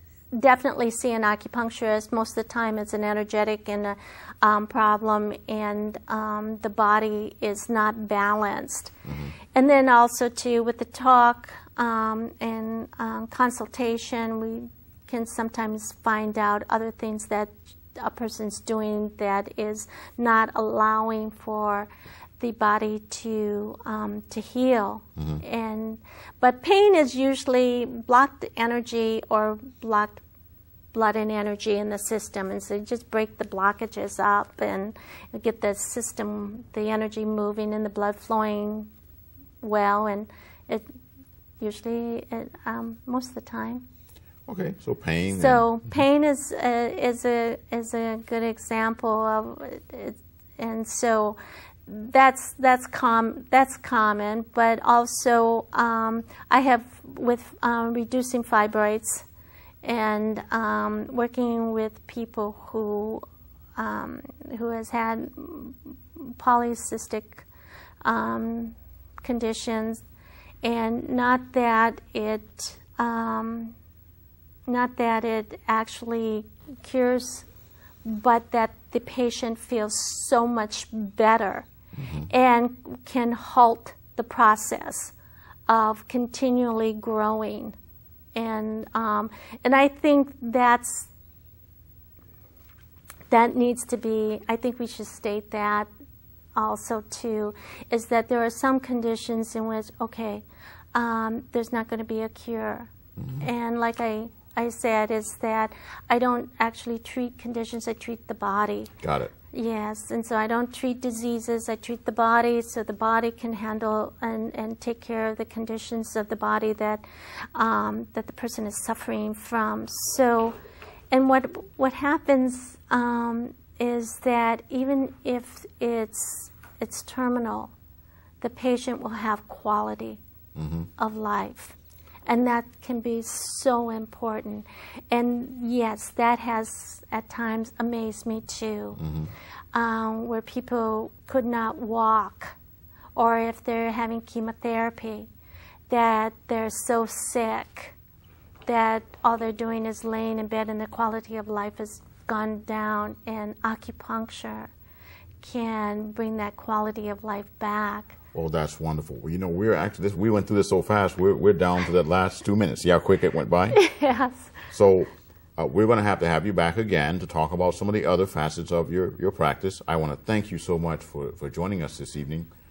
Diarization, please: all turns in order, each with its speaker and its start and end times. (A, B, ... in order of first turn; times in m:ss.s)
0:00.3-0:08.9 A
0:09.1-0:09.4 B
0:09.5-0:30.2 A
0:30.9-0:38.9 A
0:39.6-0:40.9 A
0:41.6-0:43.8 A
0:44.5-0:46.0 B
0:45.3-0:59.3 A
0:59.8-1:03.2 A
1:03.8-1:07.5 A
1:08.0-1:10.0 A
1:10.6-1:13.8 A
1:14.7-1:17.5 A
1:18.0-1:21.7 A
1:22.0-1:22.3 B
1:22.3-1:25.2 A
1:25.7-1:27.8 A
1:28.4-1:31.1 A
1:33.3-1:35.9 A
1:36.6-1:48.9 A
1:43.2-1:43.5 B
1:49.0-1:49.3 B
1:49.5-2:00.6 A
2:01.1-2:07.7 A
2:08.4-2:10.2 A
2:10.6-2:10.9 B
2:11.0-2:19.0 A
2:19.0-2:19.3 B
2:19.7-2:22.6 A
2:23.2-2:25.3 A
2:25.9-2:28.0 A
2:28.7-2:34.7 A
2:35.4-2:38.2 A
2:38.3-2:43.8 B
2:43.7-2:44.6 A
2:44.7-2:52.5 B